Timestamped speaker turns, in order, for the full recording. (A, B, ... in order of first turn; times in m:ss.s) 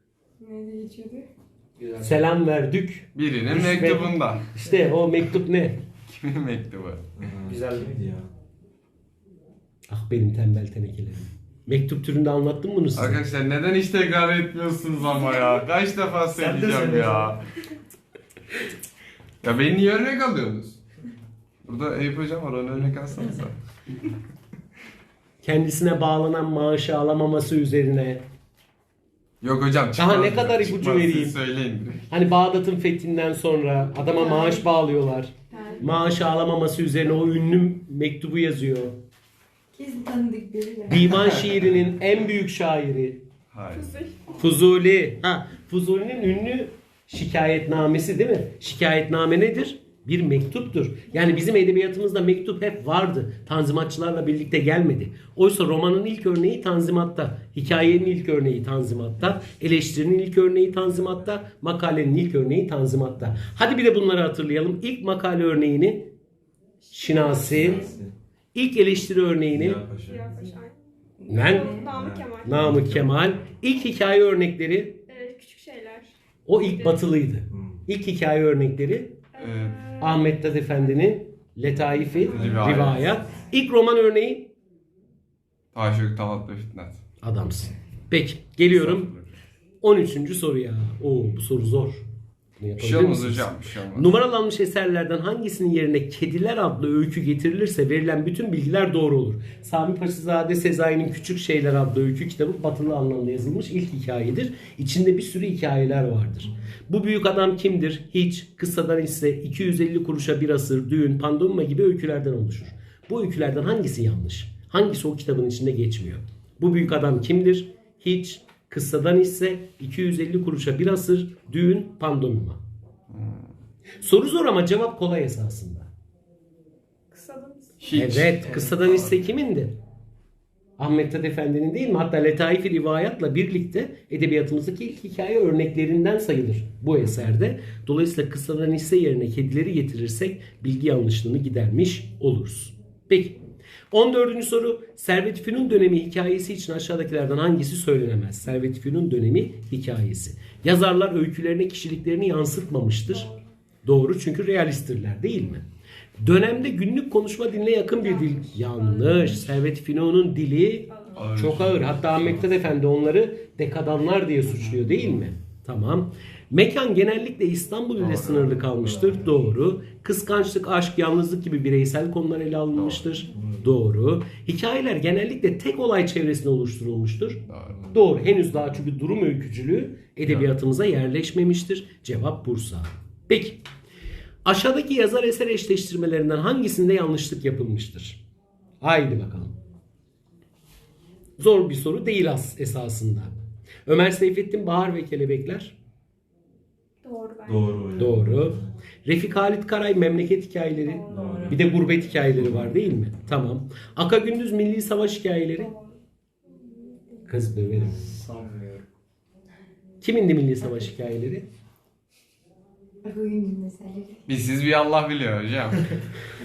0:00.4-0:01.3 A
0:01.9-0:05.8 B
0:03.1-0:04.5 C
0:06.1-0:07.0 C
0:07.2-0:08.3 D
0:07.5-0:07.8 B
0:09.9-0:13.2 B
0:12.9-0:17.4 C
0:16.4-0:17.4 B
0:19.4-0:20.8 C
0:21.6-0:23.6 C
0:25.4-0:28.2 B
0:29.4-0:32.0 C
0:30.0-0:31.4 B
0:32.1-0:39.0 B
0:34.1-0:34.7 A
0:35.5-0:36.2 A
0:39.7-0:41.4 A
0:40.9-0:43.2 B
0:41.1-0:41.9 C
0:43.5-0:43.9 C
0:43.7-0:44.3 E
0:44.3-1:06.1 B
0:57.7-0:58.0 D
1:03.2-1:03.4 D
1:06.8-1:08.0 E
1:06.9-1:07.9 B
1:07.1-1:08.2 D
1:08.5-1:09.8 B
1:09.5-1:10.5 D
1:10.0-1:12.8 E
1:11.2-1:11.9 A
1:11.3-1:11.8 B
1:11.7-1:13.4 D
1:12.4-1:15.0 B
1:15.1-1:17.1 E
1:16.4-1:19.2 B
1:17.5-1:17.8 D
1:19.3-1:21.1 E
1:19.4-1:19.8 C
1:20.0-1:24.5 B
1:22.1-1:22.7 E
1:22.2-1:23.5 D
1:22.3-1:23.2 C
1:25.7-1:27.0 C
1:27.2-1:29.1 B
1:28.7-1:29.3 C
1:29.8-1:32.0 B
1:32.6-2:02.6 B
1:32.8-1:34.2 C
2:03.1-2:03.5 C
2:04.0-2:05.9 B
2:07.1-2:07.9 E
2:07.8-2:09.3 C
2:07.9-2:09.7 B
2:10.8-2:23.4 B
2:23.9-2:33.3 B
2:33.1-2:33.4 E
2:33.8-2:35.6 B
2:36.2-3:03.6 B
2:38.0-2:39.5 E
2:40.9-2:41.2 E
2:41.1-2:42.7 C
2:44.5-2:45.1 C
2:48.0-2:48.7 C
2:48.7-2:49.2 D
2:52.7-2:53.1 C
2:53.2-2:53.7 D
2:57.5-2:57.9 C
3:00.2-3:00.5 C
3:04.4-3:08.2 B
3:08.8-3:09.5 B
3:11.4-3:13.3 B
3:13.8-3:15.7 B
3:17.0-3:18.0 E
3:17.4-3:18.7 D
3:18.0-3:25.7 B
3:20.8-3:21.5 E
3:21.1-3:23.2 D
3:21.1-3:21.5 A
3:25.6-3:26.0 E
3:26.6-3:27.2 E
3:27.2-3:28.2 B
3:27.8-3:28.3 D
3:30.0-3:31.5 B
3:33.0-3:34.3 A
3:34.3-3:36.0 C